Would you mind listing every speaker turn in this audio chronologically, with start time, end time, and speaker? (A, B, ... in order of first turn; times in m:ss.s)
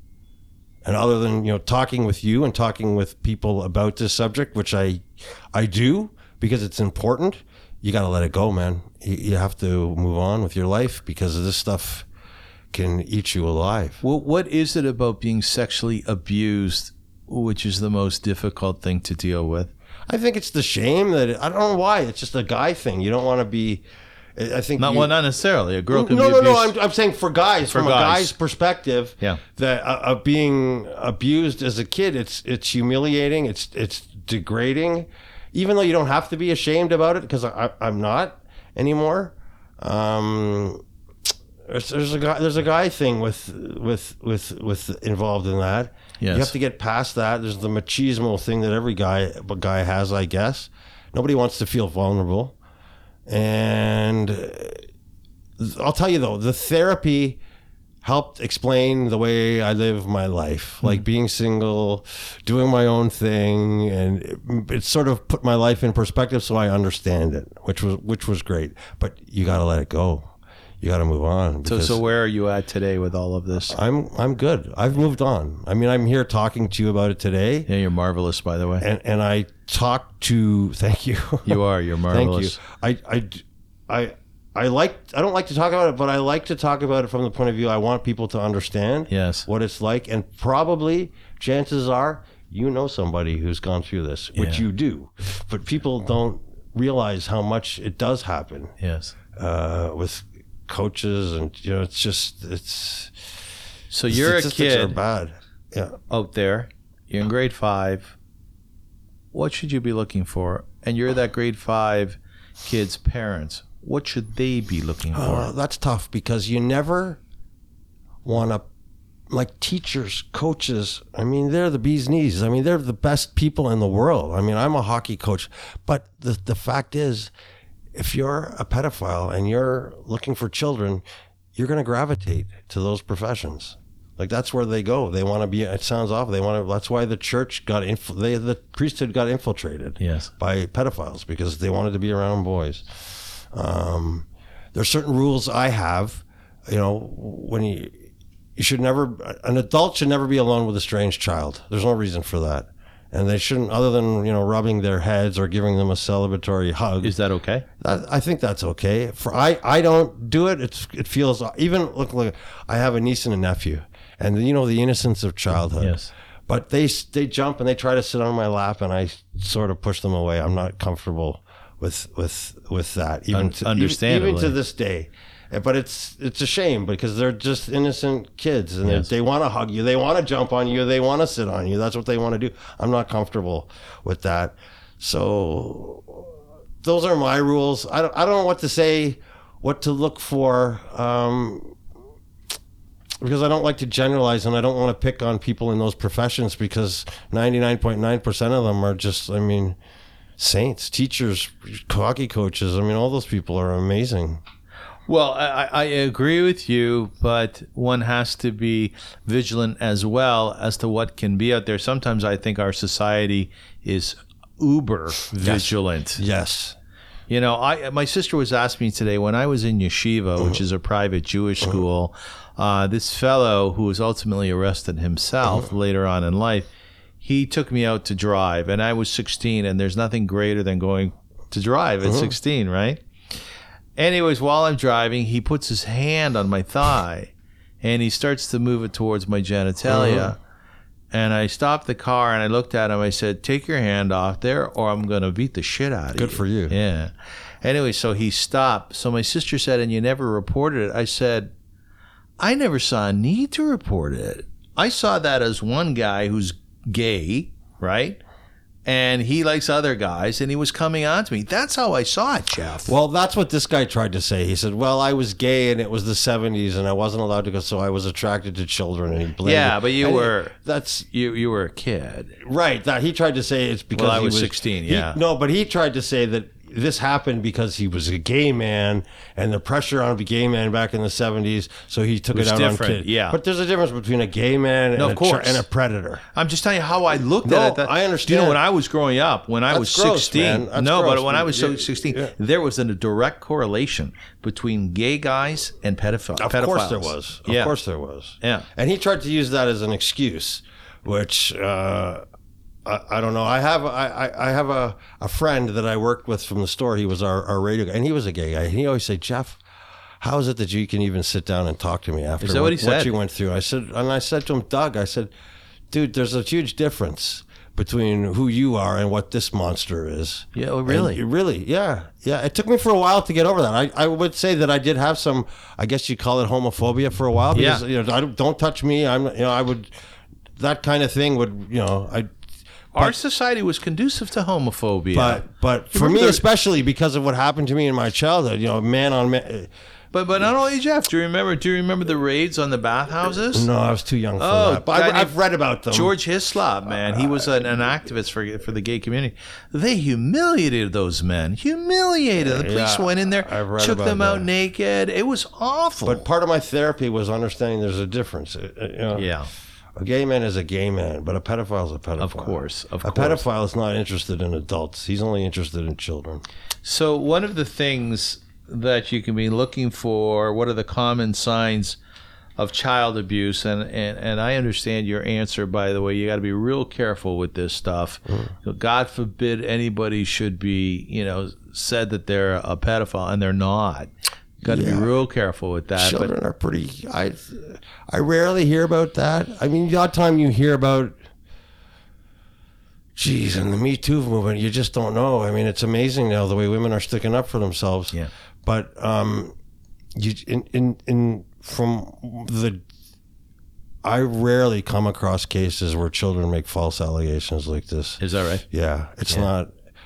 0:00.8-0:12.1 A
0:12.7-0:14.0 A
0:14.0-0:19.7 B
0:20.1-0:23.8 A
0:24.4-0:25.1 A
0:24.8-0:26.7 B
0:25.9-0:40.8 A
0:27.7-0:28.3 B
0:41.7-0:52.6 A
0:46.2-0:46.5 B
0:53.3-0:54.8 A
0:55.6-0:57.4 A
0:58.0-1:12.0 A
1:11.6-1:13.8 B
1:13.7-1:17.7 A
1:17.7-1:18.8 B
1:18.8-1:38.7 A
1:21.5-1:22.6 B
1:29.1-1:29.5 B
1:34.4-1:34.6 B
1:38.8-1:39.2 B
1:39.4-1:43.1 A
1:43.9-1:45.0 B
1:44.1-1:46.0 A
1:46.1-1:48.2 B
1:49.3-1:55.5 B
1:55.1-1:57.2 A
1:58.2-1:58.6 A
1:59.3-2:07.3 A
2:07.9-2:11.0 A
2:11.6-2:22.8 A
2:20.0-2:20.3 B
2:23.5-2:28.0 A
2:28.6-2:37.1 A
2:37.0-2:37.6 B
2:37.8-2:46.0 A
2:45.8-2:46.1 B
2:46.5-3:11.8 A
2:53.3-2:54.6 B
3:13.2-3:19.8 A
3:20.4-3:24.4 A
3:25.1-3:36.2 B
3:35.4-3:36.8 A
3:37.3-3:46.7 B
3:47.2-3:53.0 B
3:52.0-3:52.3 A
3:54.0-3:57.3 B
3:57.8-4:00.4 B
3:59.9-4:00.3 A
4:01.1-4:11.5 B
4:06.2-4:06.8 A
4:12.4-4:18.2 B
4:18.9-4:22.9 B
4:22.9-4:31.1 A
4:29.4-4:30.5 B
4:31.1-4:32.4 B
4:32.4-4:46.2 A
4:34.0-4:35.2 B
4:42.3-4:43.4 B
4:45.0-4:45.7 B
4:46.3-4:57.8 B
4:47.4-4:48.6 A
4:49.7-4:52.3 A
4:56.4-5:02.2 A
4:58.4-4:58.7 B
5:02.8-5:09.6 A
5:10.2-5:15.3 A
5:12.4-5:13.1 B
5:15.9-5:29.9 A
5:20.6-5:21.2 B
5:27.5-5:27.8 B
5:30.6-5:32.3 A
5:32.9-5:36.4 B
5:35.1-5:39.7 A
5:40.1-5:43.7 B
5:43.5-5:46.2 A
5:44.4-5:45.3 B
5:45.9-5:56.2 B
5:47.2-5:47.5 A
5:52.4-5:54.5 A
5:56.0-5:59.3 A
5:59.1-5:59.5 B
6:00.0-6:06.4 A
6:02.2-6:03.4 B
6:06.8-6:12.0 B
6:12.6-6:26.3 B
6:24.6-6:25.1 A
6:26.0-6:31.2 A
6:33.2-6:39.6 A
6:40.2-6:42.8 A
6:44.0-6:49.7 A
6:48.2-6:48.6 B